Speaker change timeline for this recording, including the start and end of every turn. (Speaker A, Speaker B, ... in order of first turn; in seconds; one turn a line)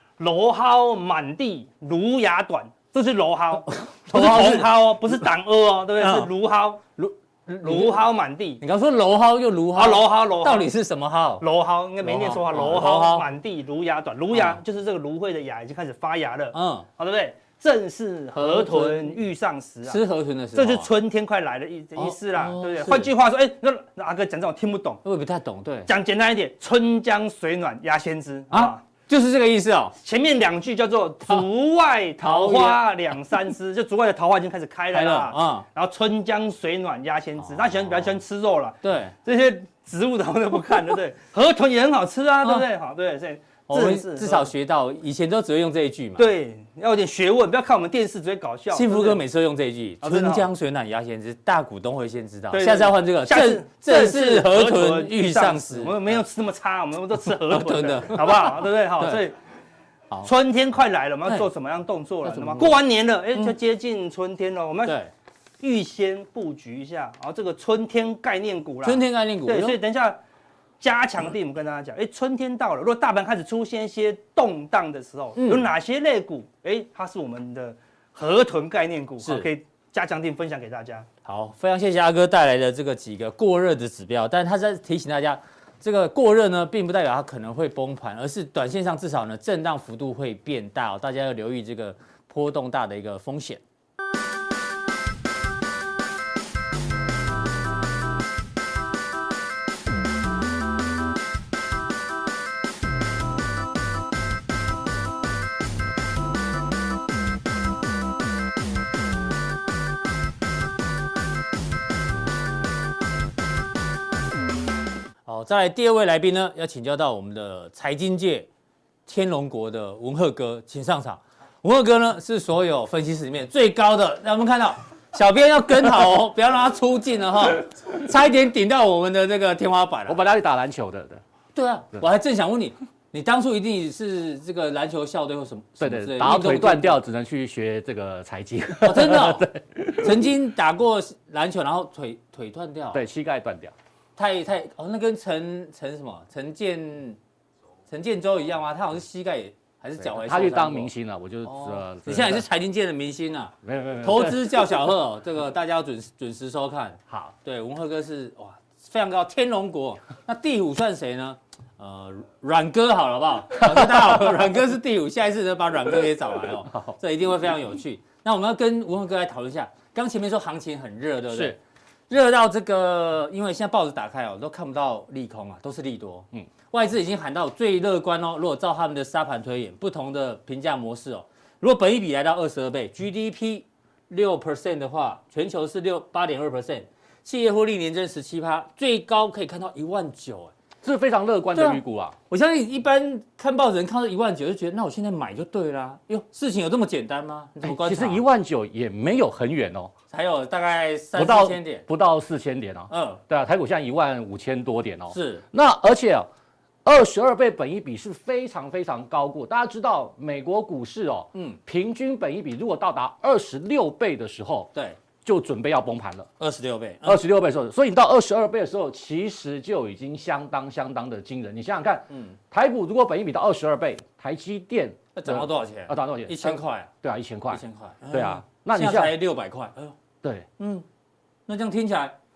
Speaker A: 0.2-6.8
Speaker B: 3.7-5.2
Speaker B: 6.0-6.3
Speaker B: 7.0-8.0
Speaker A: 7.6-8.6
Speaker B: 8.6-11.4
Speaker A: 9.8-10.7
Speaker A: 11.4-20.0
Speaker B: 12.0-13.3
Speaker B: 14.3-14.6
Speaker B: 16.5-16.9
Speaker B: 18.3-19.2
Speaker B: 19.9-20.9
Speaker A: 20.5-25.0
Speaker B: 22.0-23.1
Speaker B: 25.0-25.9
Speaker A: 25.9-28.8
Speaker B: 28.5-30.0
Speaker A: 30.0-44.5
Speaker B: 32.2-32.9
Speaker B: 34.9-35.6
Speaker B: 37.5-38.1
Speaker B: 38.8-39.1
Speaker B: 43.7-46.3
Speaker A: 46.2-49.2
Speaker B: 48.7-56.2
Speaker A: 50.0-50.5
Speaker A: 52.5-59.4
Speaker B: 57.2-59.2
Speaker A: 60.2-65.0
Speaker B: 62.2-62.8
Speaker B: 64.8-65.1
Speaker A: 65.6-70.2
Speaker B: 68.8-69.8
Speaker A: 70.8-81.1
Speaker B: 75.4-75.7
Speaker B: 79.2-79.5
Speaker B: 81.2-93.6
Speaker B: 115.2-118.5
Speaker B: 119.1-130.2
Speaker C: 130.1-131.2
Speaker B: 131.6-137.0
Speaker C: 135.8-140.3
Speaker B: 138.8-143.0
Speaker C: 142.9-143.7
Speaker B: 144.2-147.2
Speaker B: 147.9-150.9
Speaker C: 150.0-152.4
Speaker B: 151.5-190.5
Speaker C: 153.7-154.7
Speaker C: 157.1-157.3
Speaker C: 163.7-164.1
Speaker C: 190.8-192.2
Speaker B: 191.6-198.2
Speaker C: 197.6-199.9
Speaker B: 200.1-201.8
Speaker C: 201.2-206.3
Speaker B: 202.9-203.2
Speaker B: 205.1-205.4
Speaker C: 206.8-214.7
Speaker B: 211.3-211.6
Speaker B: 214.7-215.0
Speaker C: 215.2-216.3
Speaker B: 216.4-217.2
Speaker C: 217.0-229.2
Speaker B: 222.1-222.4
Speaker B: 225.2-226.9
Speaker B: 227.5-230.0
Speaker B: 230.6-230.9
Speaker B: 231.5-232.2